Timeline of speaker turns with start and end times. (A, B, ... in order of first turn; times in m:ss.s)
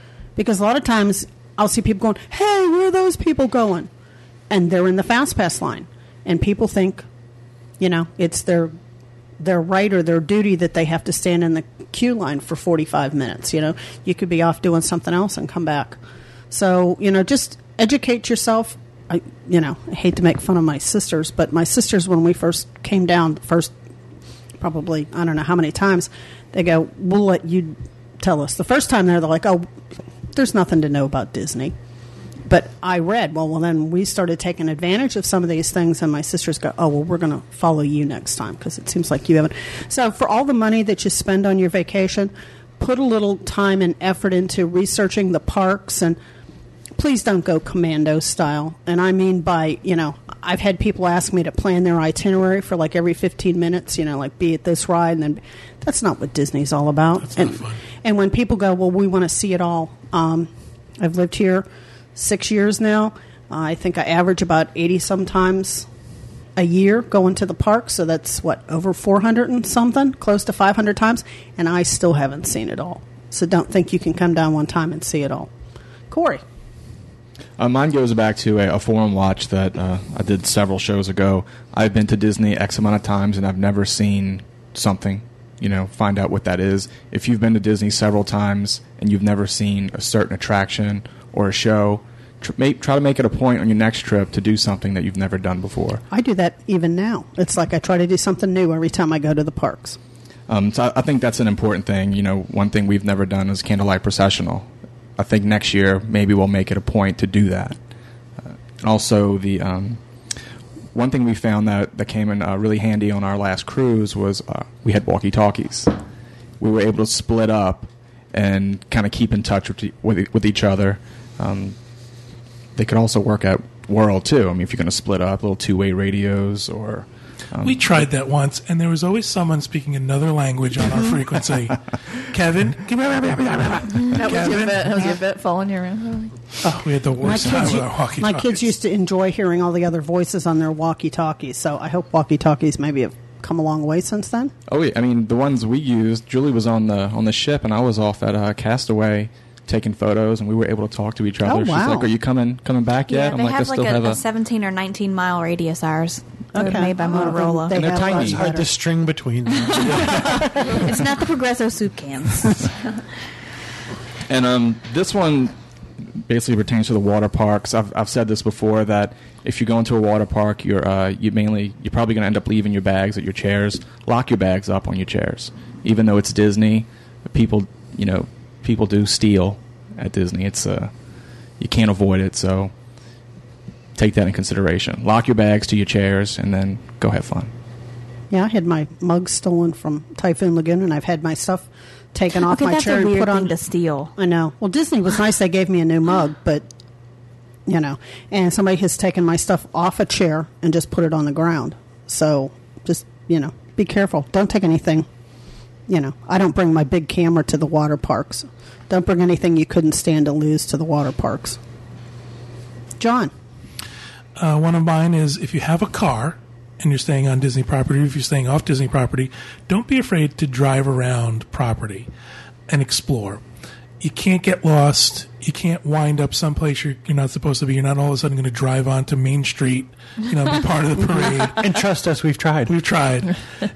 0:00.4-0:03.9 A
0:04.5-0:07.1 A
0:07.8-0:08.8 A
0:09.4-0:16.0 A
0:16.5-0:23.7 A
0:24.6-0:29.7 A
0:30.3-0:31.8 A
0:32.5-0:46.2 A
0:47.0-1:05.9 A
0:57.2-0:57.8 B
1:06.6-1:15.5 A
1:16.1-1:16.4 A
1:17.6-1:36.0 C
1:36.1-1:40.0 A
1:40.5-1:47.8 C
1:48.4-1:50.0 C
1:50.9-1:56.0 C
1:56.6-2:01.8 C
2:02.8-2:08.1 C
2:07.6-2:15.1 B
2:14.1-2:16.4 D
2:16.6-2:24.5 A
2:16.8-2:18.6 B
2:24.7-2:34.2 C
2:31.4-2:32.1 A
2:33.1-2:37.9 E
2:36.5-2:38.7 A
2:37.7-2:40.5 F
2:39.8-2:42.7 E
2:44.3-3:00.9 C
3:01.6-3:02.7 C
3:04.0-3:07.5 C
3:08.3-3:13.5 A
3:12.4-3:14.1 E
3:14.2-3:16.7 A
3:17.7-3:25.1 A
3:25.9-3:31.6 A
3:33.0-3:33.3 A
3:34.4-3:42.1 B
3:42.7-3:43.4 B
3:44.0-3:51.7 B
3:51.6-3:52.8 F
3:52.7-3:53.4 B